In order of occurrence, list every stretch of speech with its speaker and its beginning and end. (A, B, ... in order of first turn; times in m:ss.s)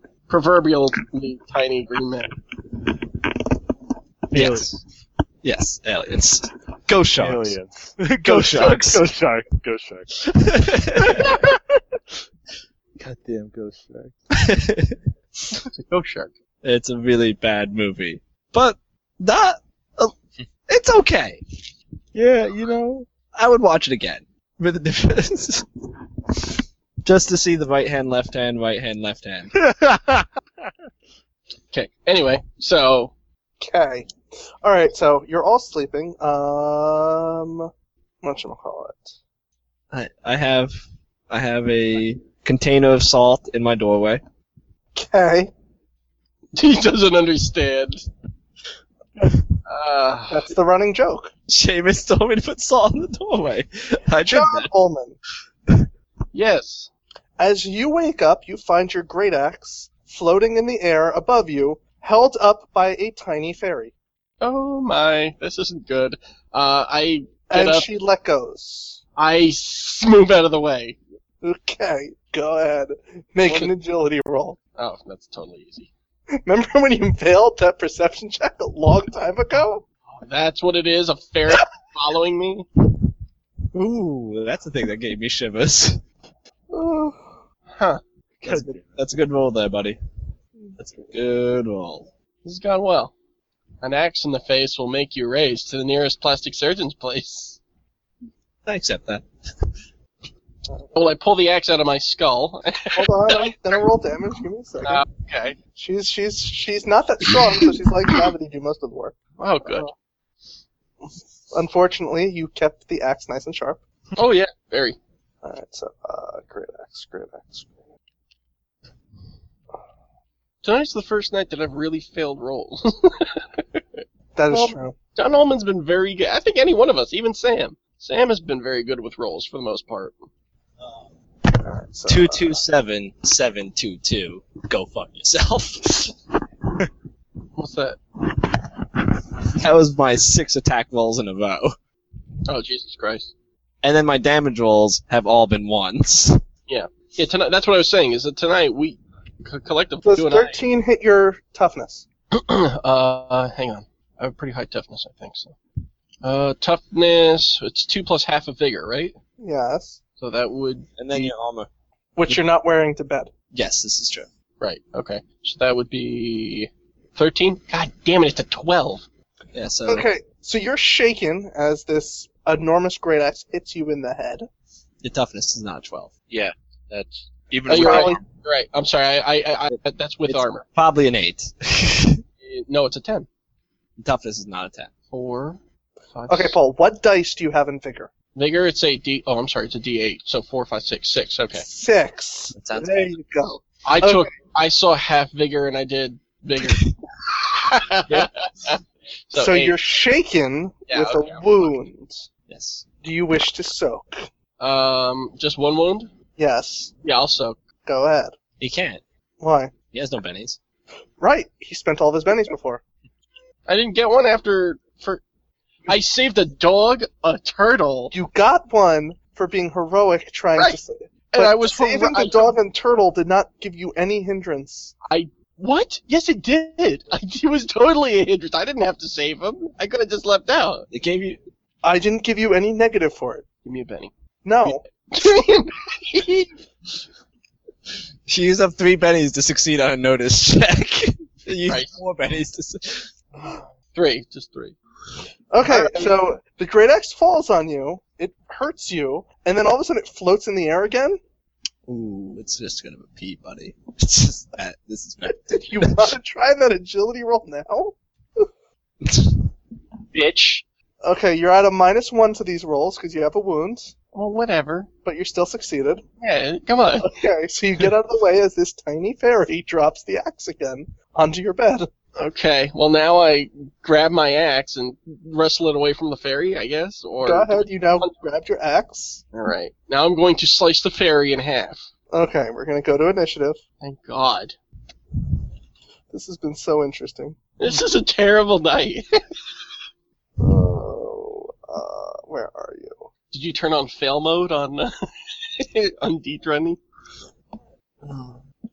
0:00.3-0:02.3 A
0:04.3-0:04.8 B
0:04.3-0:04.7 C
0:05.4-0:07.6 B
0:07.2-0:10.3 C
0:08.2-0:09.0 B
0:10.2-0:11.3 B
0:11.0-0:11.8 C
0:13.0-0:14.2 C
0:14.3-0:15.0 B
0:15.7-0:16.3 A
0:16.6-0:20.1 B
0:20.7-0:21.4 B
0:22.1-0:23.1 C
0:23.3-0:25.7 B
0:26.3-0:29.5 B
0:29.6-0:30.3 C
0:31.7-0:33.1 A
0:33.6-0:34.1 D
0:34.6-0:37.7 D
0:38.2-0:39.2 D
0:39.9-0:44.2 B
0:44.9-0:45.5 D
0:46.5-0:48.0 A
0:49.7-0:50.5 A
0:50.3-0:51.3 D
0:51.5-0:54.7 B
0:54.3-0:55.2 D
0:56.3-0:56.9 A
0:57.4-1:03.9 D
1:04.4-1:07.9 A
1:07.5-1:09.0 D
1:09.2-1:11.0 A
1:11.4-1:14.6 D
1:13.5-1:13.7 A
1:14.8-1:15.9 A
1:16.3-1:19.8 D
1:20.2-1:22.6 A
1:23.7-1:26.0 B
1:26.7-1:27.3 D
1:27.7-1:28.0 A
1:28.4-1:28.8 C
1:28.4-1:30.0 B
1:30.8-1:32.1 B
1:32.4-1:33.1 A
1:33.8-1:37.6 A
1:38.6-1:39.7 B
1:40.9-1:43.6 A
1:42.9-1:45.0 D
1:44.8-1:45.6 A
1:45.8-1:49.9 D
1:49.4-1:49.8 A
1:51.5-1:53.8 D
1:54.2-1:55.0 A
1:55.4-1:57.8 D
2:00.6-2:10.2 A
2:04.4-2:04.9 D
2:10.8-2:11.1 B
2:11.6-2:12.6 D
2:12.0-2:16.1 B
2:17.6-2:18.0 A
2:19.4-2:21.7 B
2:22.5-2:23.3 A
2:23.8-2:26.4 B
2:26.7-2:30.6 A
2:30.0-2:32.0 D
2:32.3-2:35.5 A
2:36.2-2:39.1 A
2:39.4-2:40.0 D
2:40.2-2:40.9 A
2:41.0-2:41.7 B
2:42.2-2:43.3 D
2:43.5-2:44.3 B
2:44.6-2:49.0 A
2:49.5-2:50.1 B
2:49.8-2:54.5 D
2:55.0-2:56.1 B
2:56.3-2:58.2 E
2:57.7-3:00.6 A
2:57.7-2:58.2 D
2:59.7-3:02.2 B
3:02.4-3:03.3 A
3:04.0-3:04.9 B
3:05.1-3:05.6 A
3:06.1-3:06.6 A
3:06.3-3:08.1 D
3:08.4-3:11.6 A
3:11.5-3:14.3 D
3:12.5-3:13.2 B
3:13.8-3:19.8 A
3:19.3-3:22.3 D
3:20.9-3:21.8 A
3:22.5-3:22.8 B
3:23.0-3:24.3 D
3:24.6-3:26.1 A
3:26.4-3:26.9 D
3:27.0-3:27.6 A
3:27.8-3:28.3 D
3:28.6-3:29.0 B
3:29.4-3:29.7 D
3:29.9-3:30.6 B
3:31.2-3:32.8 D
3:33.7-3:35.2 A
3:35.9-3:38.1 A
3:38.1-3:44.9 D
3:41.3-3:42.6 A
3:45.1-3:50.8 A
3:50.9-3:51.4 B
3:51.8-3:53.4 D
3:53.6-3:54.1 A
3:54.4-3:54.8 D
3:54.6-3:56.5 A
3:58.3-4:03.1 B
4:01.7-4:02.0 A
4:03.5-4:04.7 A
4:05.5-4:11.2 D
4:05.6-4:06.1 A
4:11.9-4:16.1 B
4:15.3-4:18.5 D
4:19.0-4:19.5 B
4:20.1-4:20.6 A
4:21.0-4:23.9 D
4:24.1-4:24.9 A
4:25.0-4:26.0 D
4:26.2-4:27.1 A
4:27.0-4:31.9 D
4:32.2-4:38.1 A
4:37.2-4:39.2 D
4:39.3-4:41.9 A
4:42.1-4:43.6 D
4:43.8-4:44.6 A
4:46.1-4:47.4 D
4:47.6-4:49.2 A
4:50.4-4:53.1 D
4:53.3-4:56.8 A
4:58.0-4:58.4 B